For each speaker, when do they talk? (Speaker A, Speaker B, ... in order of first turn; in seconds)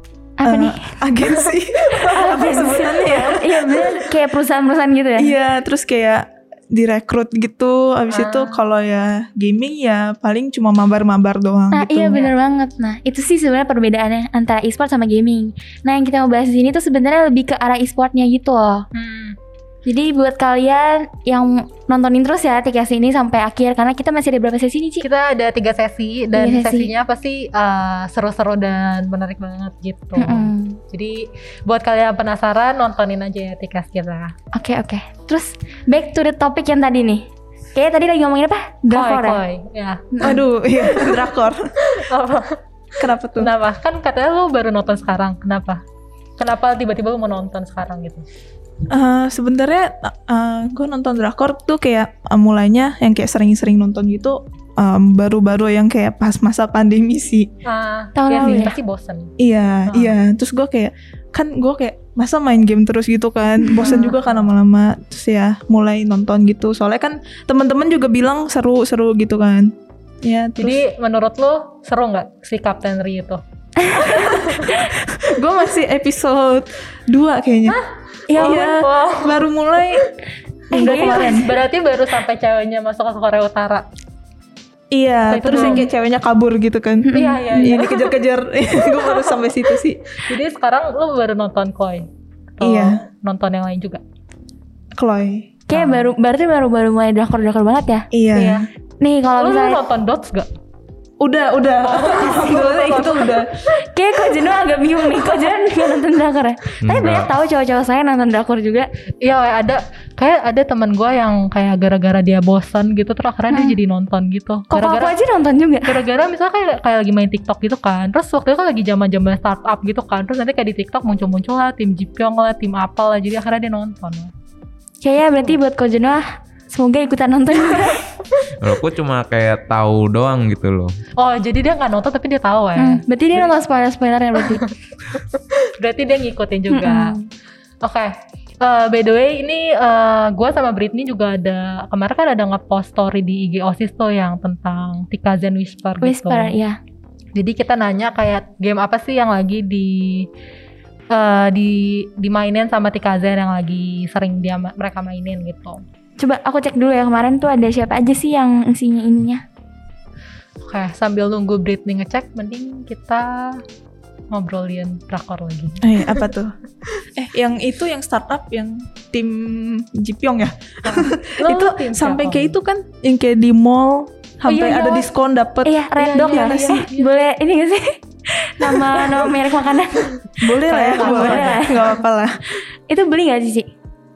Speaker A: 0.4-1.0, 1.9-5.3, 11.7-18.9, 19.9-25.1, 26.4-26.9, 30.2-30.8, 34.5-39.4, 40.2-40.4, 58.2-58.8, 63.7-64.1, 73.8-74.9, 78.3-78.7, 80.7-81.5, 85.5-85.8, 87.0-87.8, 95.7-98.1, 99.0-99.8, 103.9-108.9, 113.5-113.8, 114.7-116.0, 125.0-128.1, 132.8-134.6, 136.7-137.3, 146.0-146.8, 156.2-159.4, 175.6-181.9, 182.9-183.7
Speaker B: 0.4-4.2, 5.2-12.3, 40.2-41.7, 43.0-43.5, 48.9-57.5, 59.4-70.8, 74.0-77.8, 78.4-80.1, 80.7-81.5, 84.9-90.0, 92.6-93.0, 95.0-95.6, 98.1-98.6, 101.2-103.5, 165.8-166.5, 167.1-176.9, 180.4-182.4
Speaker C: 8.1-8.6, 18.9-19.4, 25.0-34.3, 38.9-41.3, 41.8-42.6, 43.4-45.8, 46.4-48.3, 57.6-59.4, 59.9-60.2, 63.8-64.4, 70.6-73.4, 74.1-74.8, 77.7-79.5, 80.7-83.9, 85.3-85.9, 87.1-88.2, 88.9-89.4, 90.2-94.0, 95.7-96.1, 98.3-98.7, 99.4-100.5, 101.8-103.8, 109.2-115.2, 115.9-124.3, 131.2-133.5, 134.4-137.2, 137.8-146.6, 147.4-150.3, 151.1-155.8, 160.6-163.6, 164.3-166.2, 170.8-172.6, 174.5-175.1, 176.0-177.1, 180.7-181.8
Speaker D: 106.8-107.3, 128.6-130.9